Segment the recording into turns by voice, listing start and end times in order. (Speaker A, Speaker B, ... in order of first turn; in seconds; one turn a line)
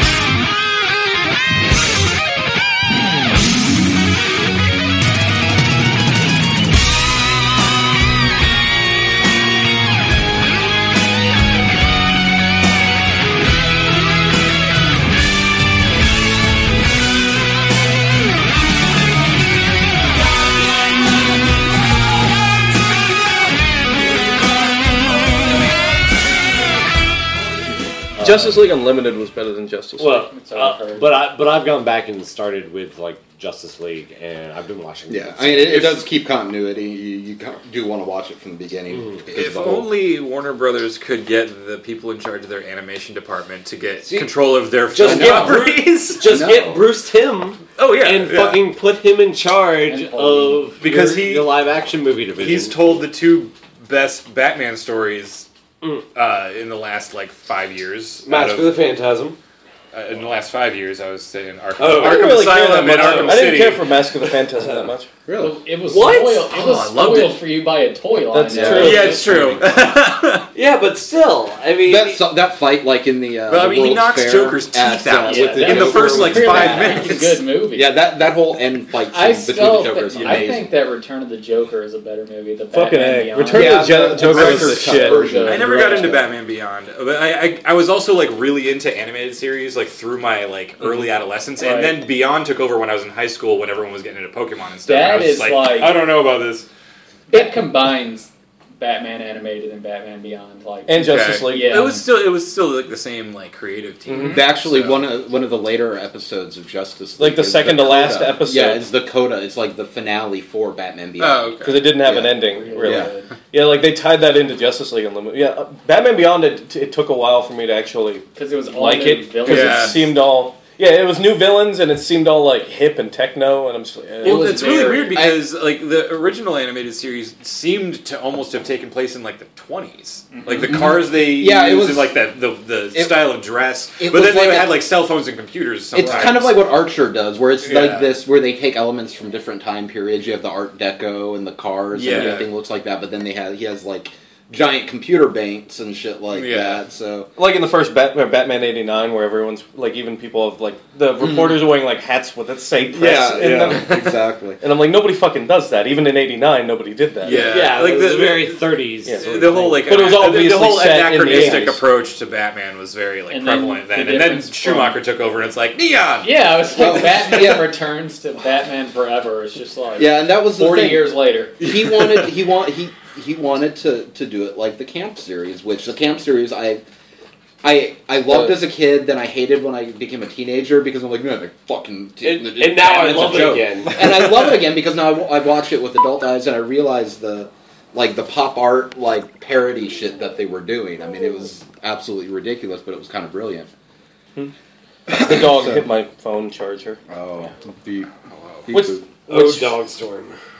Speaker A: 28.1-28.6
Speaker B: 28.2-30.3
Speaker A: 30.0-35.9
Speaker C: 30.1-31.2
Speaker D: 35.1-39.9
Speaker A: 38.9-39.2
Speaker E: 39.3-46.3
Speaker A: 44.0-44.3
Speaker A: 44.9-53.0
Speaker D: 45.0-45.6
Speaker D: 46.2-46.9
Speaker E: 47.9-48.6
Speaker C: 49.9-50.7
Speaker E: 50.8-51.5
Speaker E: 52.4-55.5
Speaker E: 56.1-58.7
Speaker A: 58.3-59.4
Speaker E: 59.9-63.9
Speaker A: 61.8-63.5
Speaker B: 61.9-65.1
Speaker D: 65.3-65.6
Speaker C: 65.4-69.3
Speaker A: 65.9-67.3
Speaker E: 66.4-67.4
Speaker B: 68.3-69.2
Speaker D: 68.5-69.5
Speaker E: 68.7-70.5
Speaker A: 68.9-69.9
Speaker A: 70.5-72.2
Speaker D: 71.8-77.1
Speaker E: 73.5-77.4
Speaker C: 75.2-78.0
Speaker D: 77.7-80.7
Speaker C: 79.1-86.2
Speaker B: 82.7-85.2
Speaker D: 83.5-86.2
Speaker E: 84.2-96.7
Speaker C: 91.6-92.0
Speaker C: 94.8-96.0
Speaker C: 97.3-102.1
Speaker B: 100.9-102.0
Speaker E: 100.9-105.1
Speaker D: 104.2-113.1
Speaker B: 107.2-108.8
Speaker E: 111.2-111.9
Speaker B: 111.6-124.7
Speaker C: 112.4-113.3
Speaker C: 118.3-120.1
Speaker E: 119.4-120.1
Speaker E: 124.2-136.6
Speaker C: 124.2-125.3
Speaker D: 125.1-125.5
Speaker C: 130.3-130.8
Speaker D: 130.7-132.2
Speaker D: 132.9-133.2
Speaker D: 134.0-134.8
Speaker D: 135.9-147.3
Speaker C: 136.0-136.3
Speaker E: 137.6-138.1
Speaker E: 141.9-142.5
Speaker B: 142.1-142.4
Speaker E: 146.3-146.8
Speaker B: 147.4-154.0
Speaker D: 151.2-151.6
Speaker D: 152.9-154.6
Speaker B: 154.6-157.6
Speaker E: 157.2-167.1
Speaker A: 157.4-160.1
Speaker B: 159.9-161.8
Speaker C: 161.3-161.6
Speaker C: 163.3-165.0
Speaker C: 166.2-171.7
Speaker D: 166.8-167.8
Speaker D: 170.0-171.1
Speaker D: 171.6-176.8
Speaker D: 177.6-193.7
Speaker A: 182.2-184.0
Speaker D: 195.1-195.8
Speaker B: 195.1-197.0
Speaker D: 197.1-198.1
Speaker E: 198.3-198.7
Speaker D: 198.7-199.1
Speaker B: 198.7-199.7
Speaker A: 199.3-200.3